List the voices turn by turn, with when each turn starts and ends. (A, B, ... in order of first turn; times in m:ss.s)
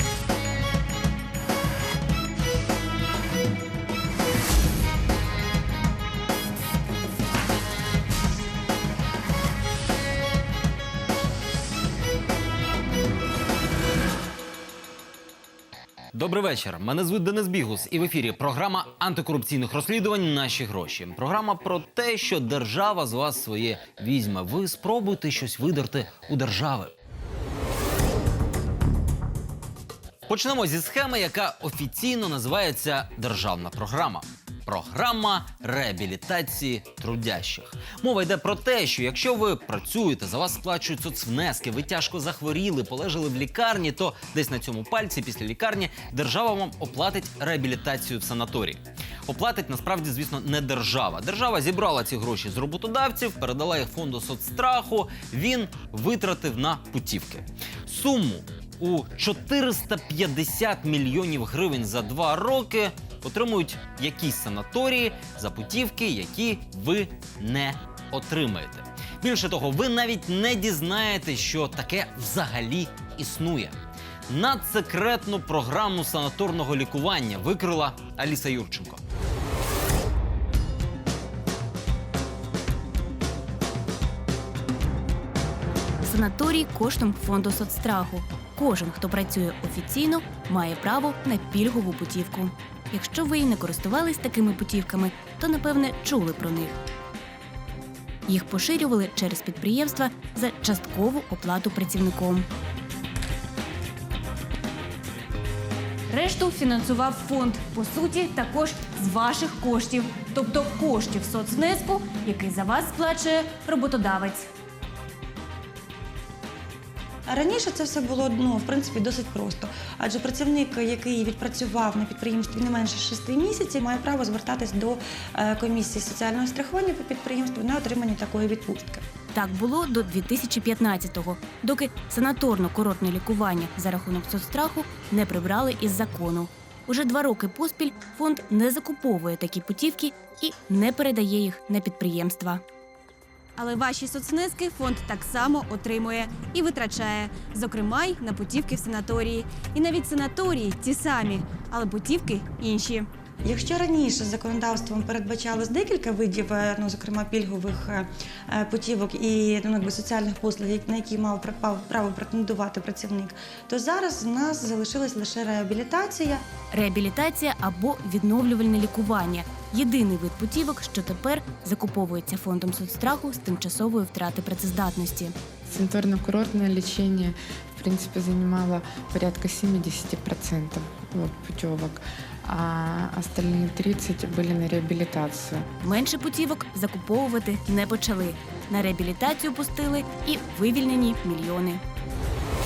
0:16.1-0:26.9 A
0:30.3-1:13.7 A
1:14.3-1:19.0 A
1:26.0-1:36.8 B
1:38.3-1:42.5 B
1:46.1-1:54.5 B
1:57.3-2:09.0 C
2:09.3-2:22.6 B
2:23.6-2:33.1 D
2:33.4-2:46.4 C
2:46.7-2:55.4 B
2:55.6-3:05.7 E
3:05.8-3:11.8 B